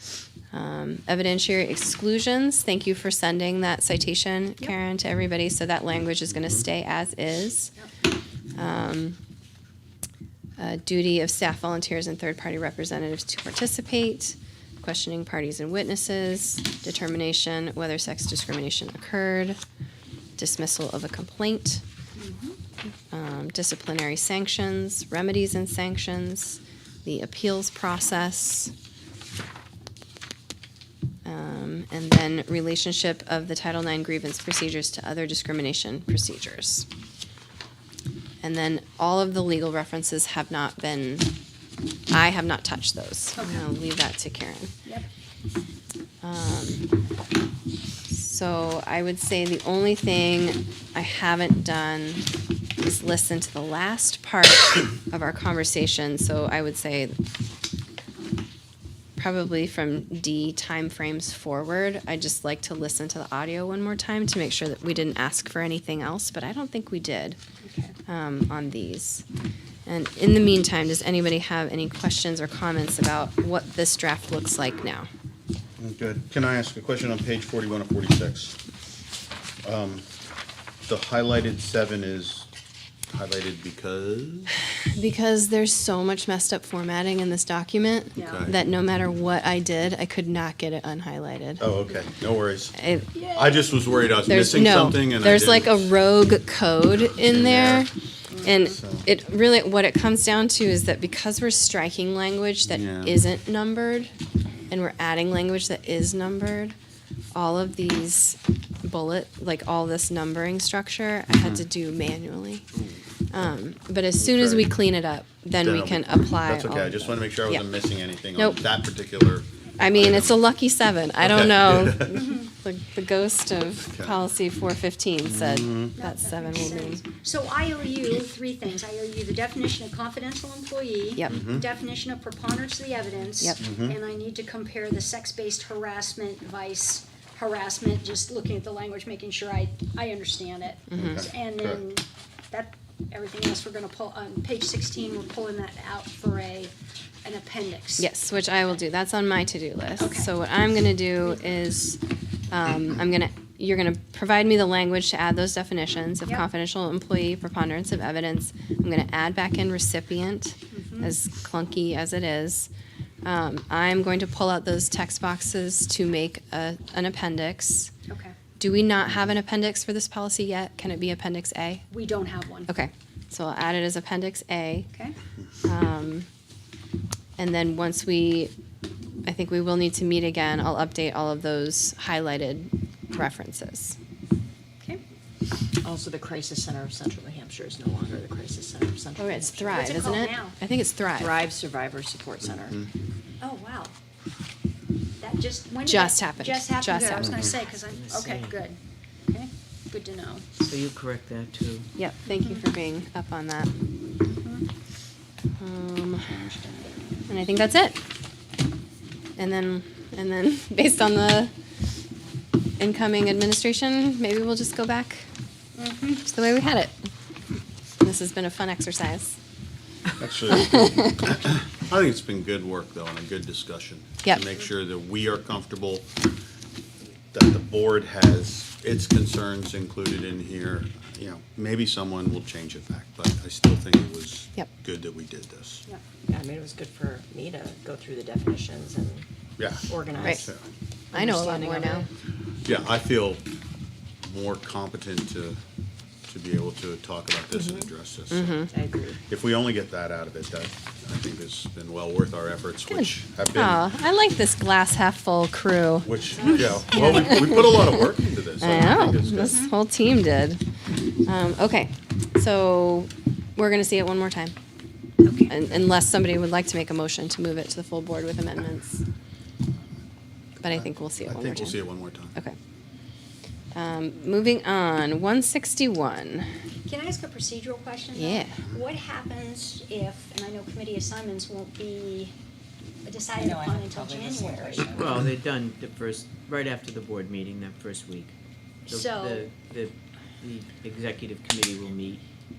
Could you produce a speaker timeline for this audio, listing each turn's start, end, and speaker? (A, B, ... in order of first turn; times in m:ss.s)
0:00.5-0:07.7 A
0:08.5-0:09.2 A
0:10.6-0:19.6 A
0:20.4-0:21.8 A
0:22.2-0:22.6 B
0:23.1-0:28.7 A
0:31.2-0:36.9 A
0:38.4-0:41.3 A
0:42.1-0:44.7 A
0:43.4-0:43.7 B
0:46.2-0:46.9 A
0:48.1-0:52.2 A
0:52.8-0:57.2 A
0:59.2-1:07.4 A
1:07.6-1:07.9 B
1:08.1-1:09.2 A
1:09.8-1:15.1 A
1:15.8-1:18.6 C
1:19.6-1:20.0 C
1:20.8-1:22.5 C
1:23.1-1:24.5 C
1:25.0-1:31.7 A
1:28.2-1:28.4 B
1:28.2-1:28.6 C
1:31.6-1:32.8 C
1:32.8-1:33.1 A
1:33.1-1:33.7 B
1:33.3-1:35.9 C
1:34.3-1:37.9 A
1:37.2-1:37.9 C
1:38.4-1:44.1 A
1:38.5-1:39.1 C
1:42.6-1:43.2 C
1:44.7-1:46.8 A
1:47.3-1:52.7 A
1:51.3-1:51.6 C
1:53.3-1:57.7 A
1:54.2-1:54.7 C
1:55.6-2:00.4 C
1:58.4-1:58.6 A
1:59.8-2:07.0 A
2:01.2-2:02.2 C
2:02.1-2:02.5 B
2:03.8-2:04.2 C
2:05.2-2:05.9 C
2:06.0-2:28.1 B
2:11.3-2:11.6 C
2:13.6-2:14.0 C
2:20.9-2:21.3 A
2:20.9-2:21.8 C
2:28.0-2:32.0 A
2:30.0-2:30.3 B
2:32.5-2:42.7 A
2:40.7-2:41.1 B
2:43.2-2:47.9 A
2:48.1-2:48.4 B
2:48.6-2:51.8 A
2:51.9-2:52.7 B
2:52.7-2:54.9 A
2:55.6-2:56.3 A
2:57.4-2:58.5 A
2:59.2-3:04.0 A
3:05.8-3:10.2 D
3:09.2-3:11.4 A
3:09.7-3:10.6 B
3:11.1-3:12.8 D
3:13.4-3:13.9 B
3:15.2-3:18.8 B
3:15.8-3:17.4 A
3:17.2-3:17.5 C
3:17.7-3:18.6 E
3:19.3-3:20.4 B
3:20.6-3:21.9 E
3:22.0-3:23.7 A
3:24.2-3:24.6 B
3:25.6-3:26.4 A
3:26.3-3:26.7 C
3:27.3-3:28.0 A
3:29.4-3:31.5 A
3:32.8-3:35.3 A
3:35.8-3:36.2 B
3:36.2-3:36.9 A
3:38.0-3:39.4 A
3:40.2-3:46.2 C
3:40.6-3:41.2 A
3:47.3-3:55.8 C
3:56.3-3:59.2 D
3:59.6-4:00.6 C
3:59.9-4:00.5 D
4:00.2-4:00.5 A
4:01.1-4:02.0 D
4:01.1-4:02.1 A
4:02.6-4:03.4 C
4:04.2-4:05.6 C
4:06.3-4:08.7 C
4:07.5-4:07.9 D
4:08.3-4:08.7 A
4:08.7-4:09.2 D
4:09.3-4:13.8 C
4:12.9-4:18.1 A
4:16.0-4:19.7 C
4:16.4-4:17.0 B
4:18.6-4:20.6 A
4:21.2-4:24.5 A
4:25.2-4:25.5 B
4:25.5-4:29.0 A
4:30.6-4:32.6 A
4:30.6-4:32.4 C
4:33.7-4:36.5 A
4:36.8-4:42.3 B
4:38.1-4:38.5 A
4:43.0-4:45.0 B
4:43.3-4:45.2 D
4:44.9-4:48.3 E
4:48.9-4:49.5 B
4:48.9-4:52.2 E